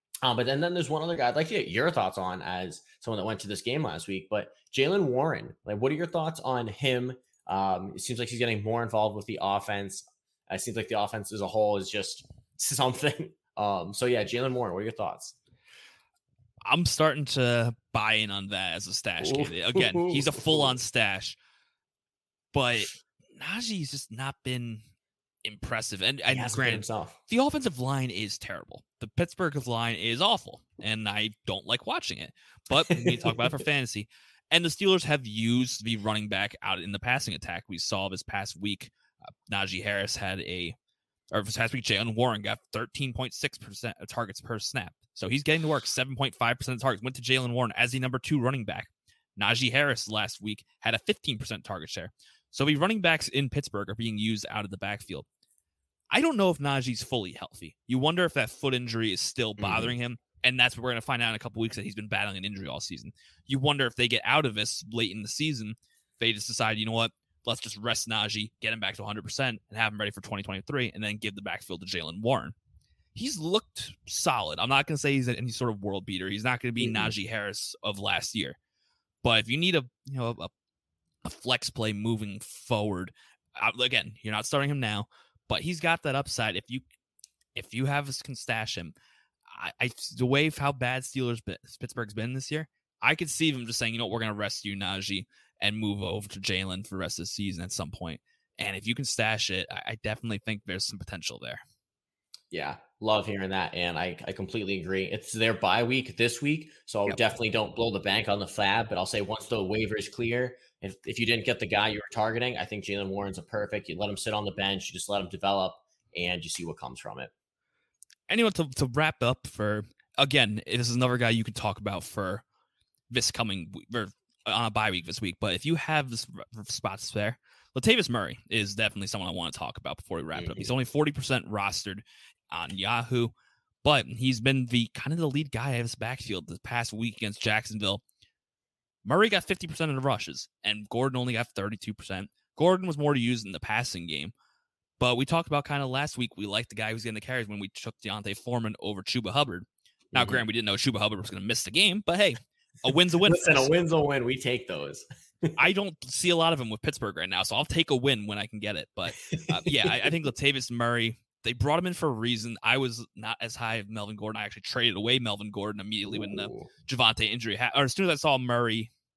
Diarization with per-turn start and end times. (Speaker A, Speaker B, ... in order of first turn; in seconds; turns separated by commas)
Speaker A: 0.2-15.3, Speaker B: 16.6-21.4, Speaker A: 19.2-20.8, Speaker B: 22.5-24.8, Speaker B: 25.4-38.9, Speaker A: 26.3-27.2, Speaker A: 32.9-33.3, Speaker B: 39.5-40.7, Speaker B: 41.3-55.2, Speaker B: 56.1-72.5, Speaker A: 59.6-59.9, Speaker B: 73.1-78.6, Speaker A: 76.8-77.1, Speaker B: 79.2-80.5, Speaker B: 81.2-86.8, Speaker B: 87.5-88.9, Speaker B: 89.5-101.6, Speaker A: 102.5-117.3, Speaker B: 118.3-122.4, Speaker B: 123.1-133.3, Speaker A: 130.3-130.7, Speaker B: 133.8-138.0, Speaker B: 139.0-144.3, Speaker B: 145.0-153.7, Speaker A: 150.1-150.4, Speaker A: 153.2-155.6, Speaker B: 155.6-168.9, Speaker A: 159.3-160.0, Speaker A: 166.1-166.7